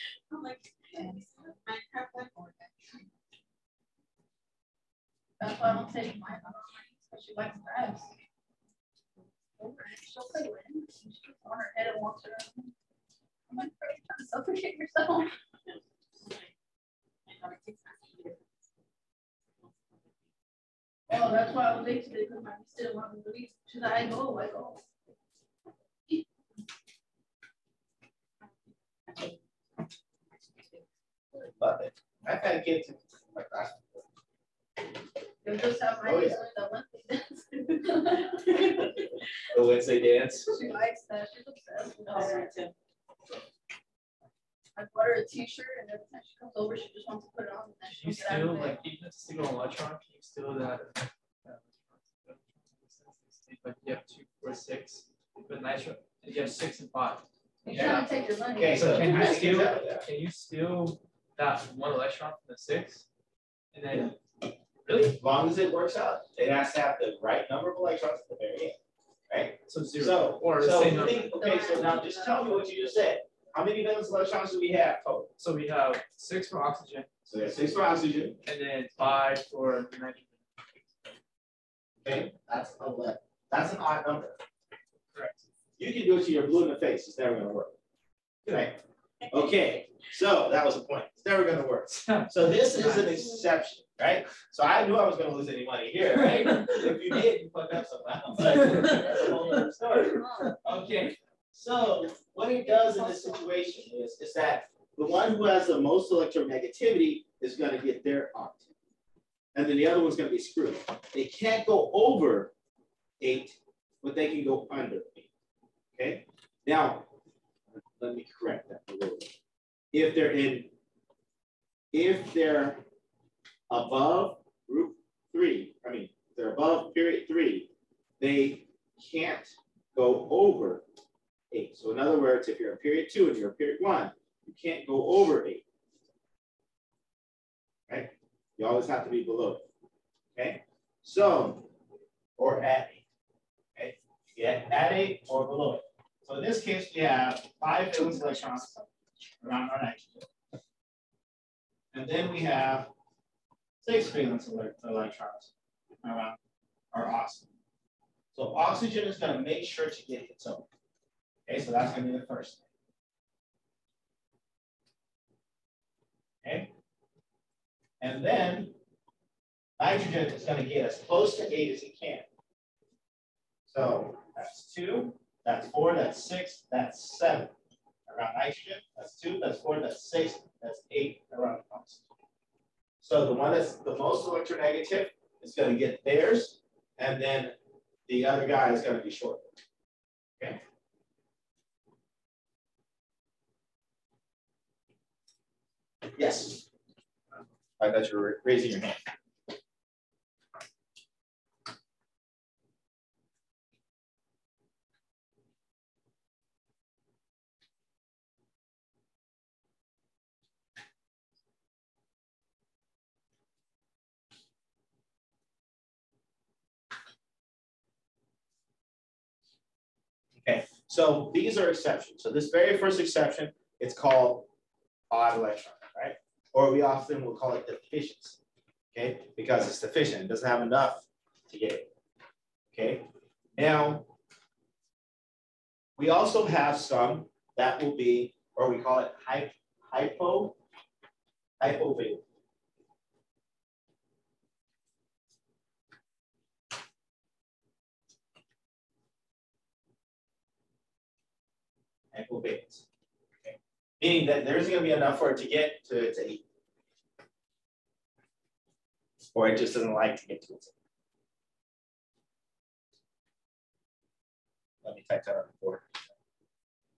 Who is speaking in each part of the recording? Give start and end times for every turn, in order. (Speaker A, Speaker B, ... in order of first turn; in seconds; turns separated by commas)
Speaker A: 1.0-1.3, Speaker B: 1.0-2.4, Speaker A: 5.4-8.1, Speaker A: 9.6-12.7, Speaker A: 13.5-15.3, Speaker A: 17.3-17.6, Speaker B: 17.4-18.3, Speaker A: 21.1-24.8, Speaker C: 31.4-34.0, Speaker A: 35.4-39.0, Speaker C: 35.5-36.5, Speaker C: 39.5-40.6, Speaker A: 40.5-42.5, Speaker B: 42.1-42.7, Speaker A: 44.8-48.8, Speaker D: 47.9-58.0, Speaker A: 57.6-59.3, Speaker C: 57.7-60.1, Speaker D: 58.7-63.1, Speaker D: 63.7-64.2, Speaker D: 64.9-65.2, Speaker C: 65.0-68.8, Speaker C: 69.3-75.3, Speaker D: 69.7-71.4, Speaker A: 71.4-72.7, Speaker D: 75.4-77.1, Speaker C: 77.3-78.4, Speaker D: 78.4-80.4, Speaker C: 82.0-84.4, Speaker D: 85.1-85.5, Speaker C: 85.8-87.8, Speaker C: 88.5-88.8, Speaker C: 89.3-108.7, Speaker D: 92.1-93.2, Speaker D: 96.4-96.8, Speaker D: 98.4-99.3, Speaker D: 100.0-100.5, Speaker C: 109.5-112.5, Speaker C: 113.2-115.3, Speaker C: 116.0-117.1, Speaker C: 118.0-119.4, Speaker C: 119.9-120.7, Speaker C: 121.9-122.8, Speaker C: 123.7-130.8, Speaker C: 131.5-135.6, Speaker C: 137.9-139.7, Speaker C: 140.3-141.7, Speaker C: 142.4-143.0, Speaker C: 143.8-148.7, Speaker C: 149.4-150.3, Speaker C: 151.9-152.9, Speaker C: 153.8-155.5, Speaker C: 156.0-156.4, Speaker C: 156.9-157.5, Speaker C: 158.3-160.7, Speaker C: 161.5-162.6, Speaker C: 166.4-166.7, Speaker C: 168.0-168.8, Speaker C: 169.8-172.3, Speaker C: 173.7-177.5, Speaker C: 178.1-182.1, Speaker C: 183.0-187.6, Speaker C: 188.1-189.5, Speaker C: 196.1-196.7, Speaker C: 197.8-199.0, Speaker C: 220.4-224.5, Speaker C: 225.1-228.4, Speaker C: 228.9-231.9, Speaker C: 232.7-234.1, Speaker C: 236.0-240.6, Speaker C: 241.6-242.2, Speaker C: 252.1-252.8, Speaker C: 253.4-256.4, Speaker C: 259.3-260.7, Speaker C: 264.8-266.0